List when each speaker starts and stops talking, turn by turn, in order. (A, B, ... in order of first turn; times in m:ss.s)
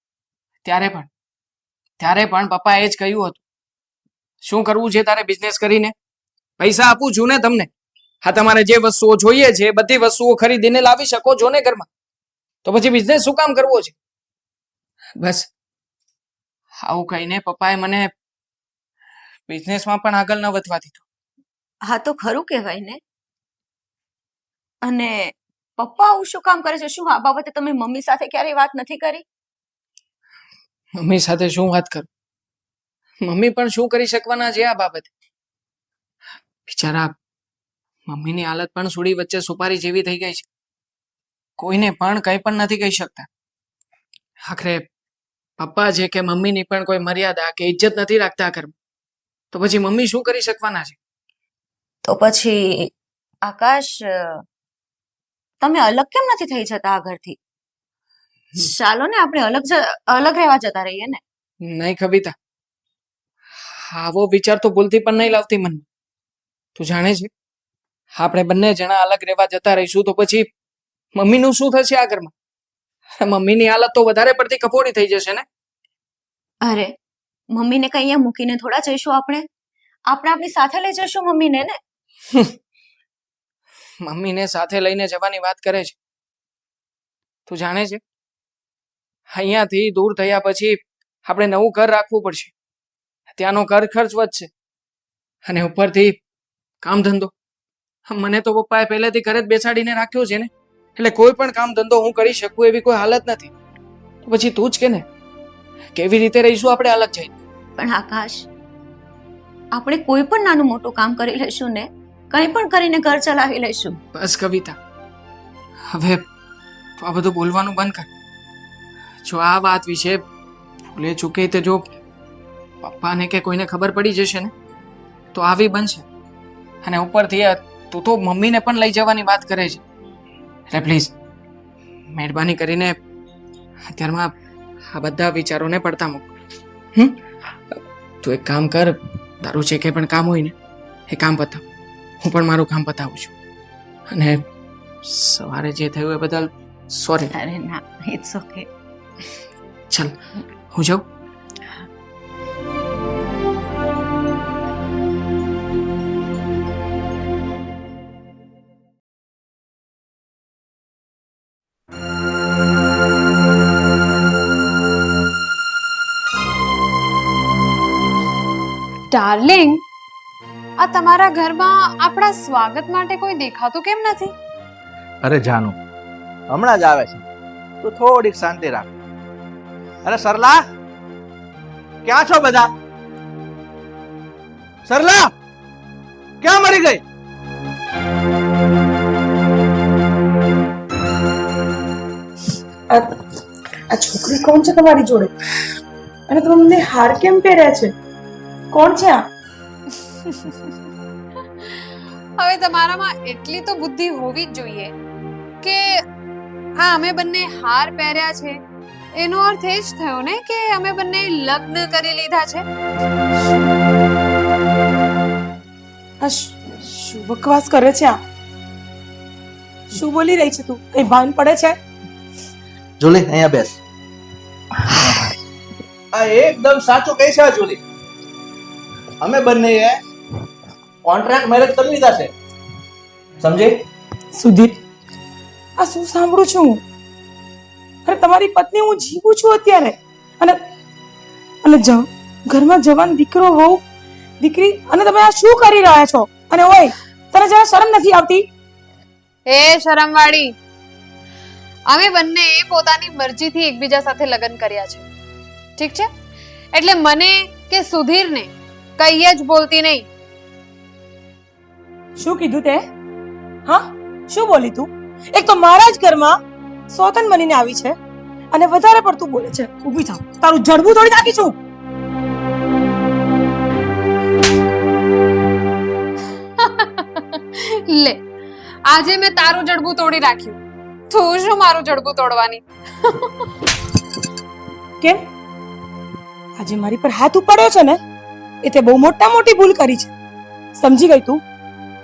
0:00.6-0:01.1 A
0:02.0-0:03.4 A
0:04.4-0:05.9 A
0:06.6-0:07.7 A
0:08.2-0:11.9 A
0:12.6-0:13.9 A
0:15.2-0:15.5 A
0:16.8-0:18.1 A
0:19.5-0:21.0 A
0:21.9-0:23.0 B
0:24.8-0:29.2 B
0:31.0-0:32.1 A
0:33.2-0:35.1 A
0:36.7-0:37.1 A
0:38.1-0:40.4 A
0:41.6-0:43.3 A
0:44.4-0:44.8 A
0:45.6-0:48.7 A
0:49.5-0:51.0 A
0:52.0-0:52.9 B
0:53.4-0:54.4 B
0:55.6-0:57.4 B
0:58.6-1:01.2 B
1:01.6-1:02.3 A
1:03.8-1:05.8 A
1:06.8-1:07.3 A
1:08.2-1:10.5 A
1:11.2-1:12.3 A
1:13.2-1:15.4 A
1:16.6-1:16.9 B
1:17.5-1:19.5 B
1:20.1-1:21.8 B
1:24.0-1:26.0 A
1:27.4-1:28.0 A
1:29.3-1:32.5 A
1:33.3-1:34.5 A
1:35.4-1:36.2 A
1:36.8-1:37.3 A
1:38.1-1:43.5 A
1:44.2-1:45.0 A
1:45.9-1:47.3 A
1:47.8-1:48.5 B
1:49.7-1:54.0 B
1:54.1-1:54.8 A
1:55.9-1:56.2 A
1:57.0-1:58.1 A
1:59.2-2:00.2 A
2:00.9-2:01.8 A
2:02.8-2:04.5 A
2:05.3-2:06.0 A
2:06.8-2:09.8 A
2:10.7-2:11.1 A
2:12.1-2:13.0 A
2:13.9-2:14.3 A
2:14.9-2:16.3 A
2:18.2-2:20.5 A
2:21.1-2:21.6 A
2:22.2-2:23.3 A
2:24.1-2:24.4 A
2:25.0-2:27.3 A
2:27.3-2:28.7 B
2:30.7-2:31.0 A
2:49.1-2:49.8 C
2:50.8-2:54.3 C
2:55.2-2:55.8 D
2:56.5-2:57.2 D
2:57.8-2:58.9 D
3:00.0-3:00.6 D
3:02.0-3:02.7 D
3:04.8-3:05.3 D
3:06.4-3:07.0 D
3:13.9-3:15.3 E
3:16.3-3:17.9 E
3:18.7-3:19.2 E
3:20.2-3:20.6 C
3:22.4-3:24.9 C
3:26.8-3:28.6 C
3:29.2-3:32.6 C
3:36.2-3:38.2 E
3:39.9-3:41.8 E
3:43.0-3:43.8 D
3:44.9-3:45.2 D
3:46.1-3:47.8 D
3:49.2-3:50.0 D
3:51.0-3:52.3 D
3:53.4-3:53.7 D
3:54.3-3:54.8 E
3:55.8-3:56.8 E
3:58.0-4:00.6 E
4:01.6-4:03.8 E
4:04.4-4:08.4 E
4:09.5-4:10.5 C
4:11.9-4:15.0 C
4:15.8-4:16.1 C
4:16.7-4:20.1 C
4:22.2-4:22.8 E
4:23.6-4:26.4 E
4:26.9-4:27.9 E
4:28.5-4:31.5 E
4:36.6-4:38.2 C
4:38.8-4:40.6 C
4:41.1-4:43.5 C
4:46.6-4:48.0 E
4:48.6-4:50.1 E
4:50.7-4:51.4 E